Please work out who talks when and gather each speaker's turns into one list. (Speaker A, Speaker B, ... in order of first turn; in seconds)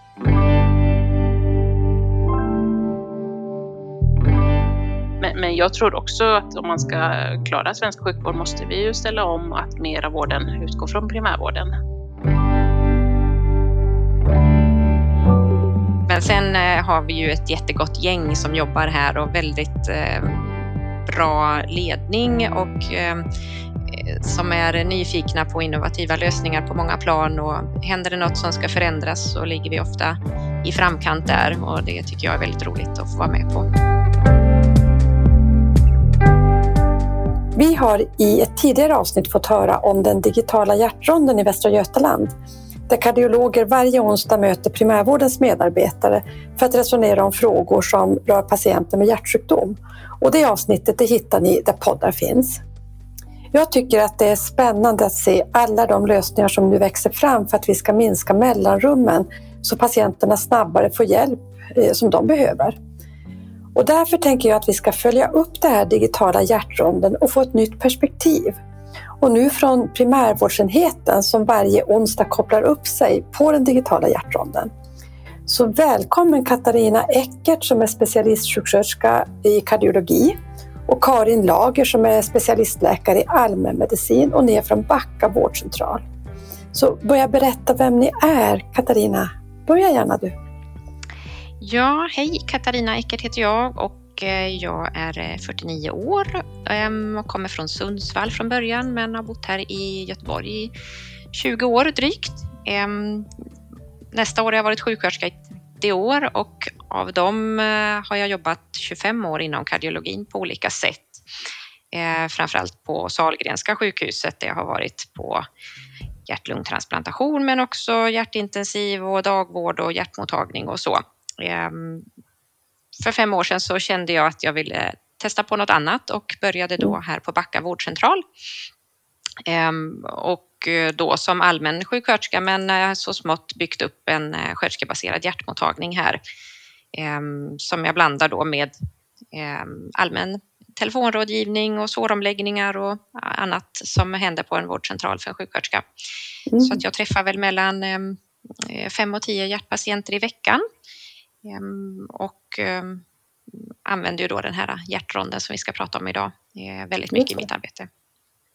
Speaker A: 5.2-11.7
Speaker B: 16.1-23.2, 23.9-33.7, 91.6-100.7, 101.3-103.3, 104.1-111.2, 111.9-115.5, 116.3-122.1, 123.0-128.2, 129.5-136.2, 136.9-138.7, 139.3-145.9, 146.6-150.6, 151.4-157.9
Speaker C: 37.5-42.3, 42.9-52.6, 53.5-62.8, 63.8-68.6, 69.2-74.7, 75.5-80.4, 80.9-86.0, 86.7-90.3, 146.5-146.8, 157.1-157.5